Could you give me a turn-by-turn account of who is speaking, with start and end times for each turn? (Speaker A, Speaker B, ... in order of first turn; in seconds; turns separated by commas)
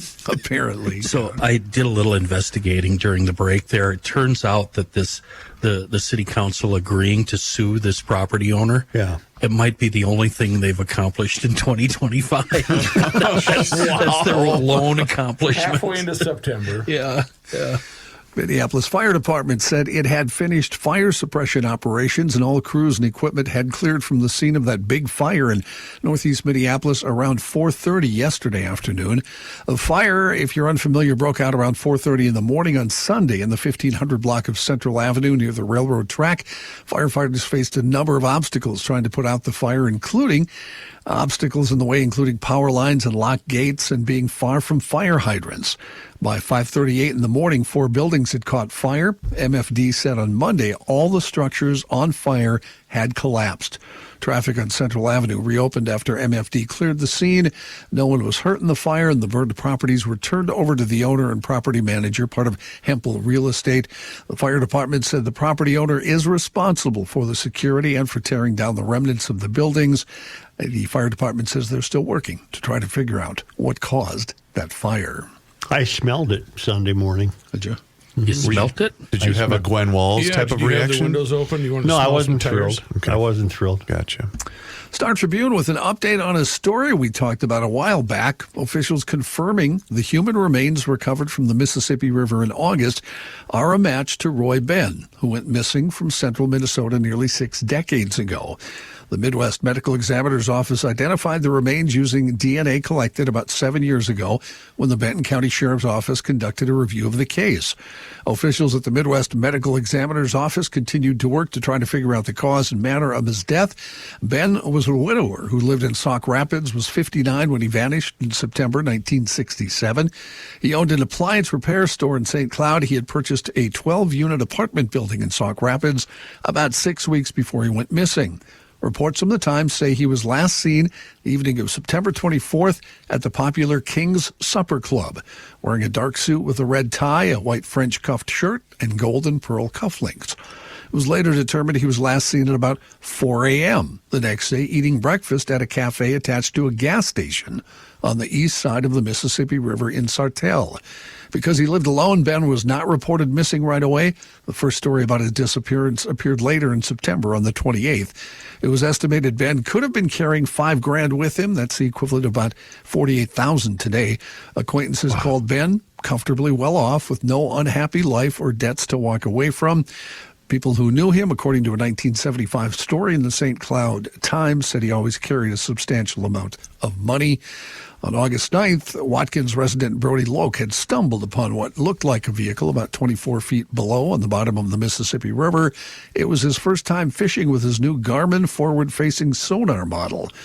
Speaker A: 0.2-1.1, Speaker B: 1.0-16.1, Speaker C: 8.9-9.2, Speaker D: 13.2-14.9, Speaker D: 15.5-16.9, Speaker B: 16.9-17.8, Speaker A: 18.4-40.5, Speaker A: 41.1-70.1, Speaker A: 70.6-75.3, Speaker C: 75.7-77.3, Speaker A: 77.5-77.8, Speaker C: 78.2-78.5, Speaker B: 78.2-79.6, Speaker E: 78.4-81.3, Speaker D: 80.2-82.8, Speaker C: 81.8-83.9, Speaker E: 82.9-83.2, Speaker E: 83.9-84.3, Speaker A: 84.9-98.6, Speaker A: 99.1-107.8, Speaker A: 108.3-140.4, Speaker A: 140.9-150.8, Speaker A: 151.3-169.9, Speaker A: 170.5-177.4, Speaker A: 178.0-190.3